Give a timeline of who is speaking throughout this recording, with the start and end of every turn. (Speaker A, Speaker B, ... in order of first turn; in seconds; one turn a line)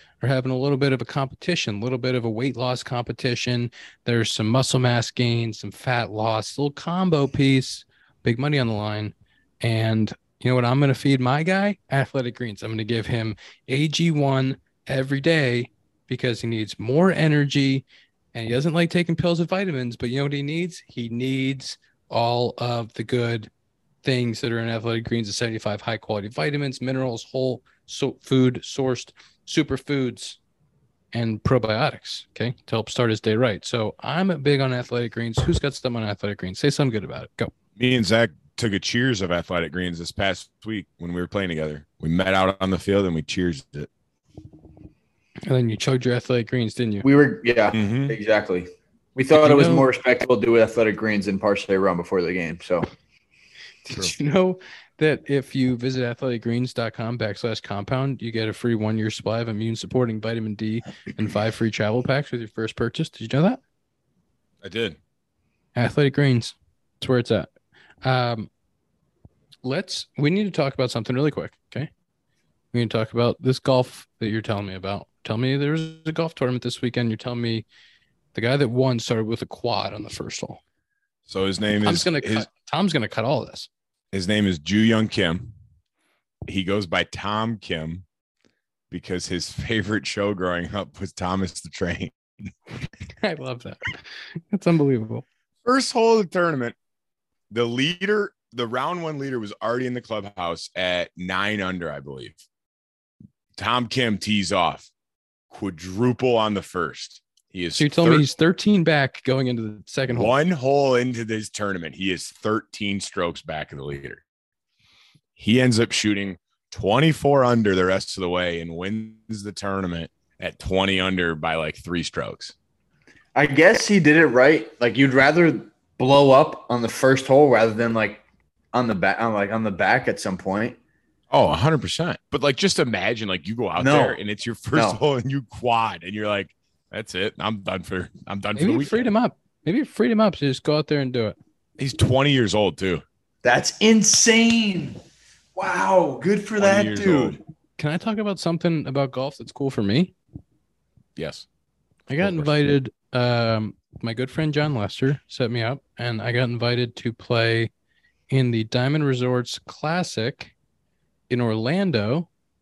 Speaker A: 0.2-23.5
Speaker A: 24.0-30.4
Speaker A: 31.1-37.5
Speaker B: 37.8-43.9
Speaker A: 45.5-47.0
Speaker C: 47.0-52.9
Speaker B: 47.7-48.2
Speaker A: 49.3-49.9
Speaker A: 53.8-63.6
Speaker B: 64.6-65.0
Speaker A: 65.7-67.5
Speaker A: 68.0-68.5
Speaker A: 69.6-71.9
Speaker A: 72.7-77.7
Speaker A: 78.3-80.6
Speaker B: 81.3-82.5
Speaker A: 81.8-83.7
Speaker B: 84.1-85.5
Speaker B: 86.5-88.0
Speaker B: 88.9-92.5
Speaker A: 93.2-95.2
Speaker B: 95.6-96.7
Speaker B: 97.5-102.4
Speaker B: 103.6-104.9
Speaker B: 105.5-108.3
Speaker A: 107.8-110.3
Speaker B: 110.1-114.2
Speaker B: 115.3-122.5
Speaker C: 123.3-130.8
Speaker B: 131.3-139.1
Speaker C: 133.8-134.2
Speaker C: 134.7-135.0
Speaker A: 138.6-141.3
Speaker B: 141.8-143.0
Speaker C: 143.4-145.0
Speaker C: 145.5-147.4
Speaker B: 146.6-147.4
Speaker A: 147.8-150.1
Speaker B: 151.2-151.4
Speaker A: 152.1-157.7
Speaker B: 152.2-152.5
Speaker A: 158.3-160.5
Speaker A: 161.3-162.3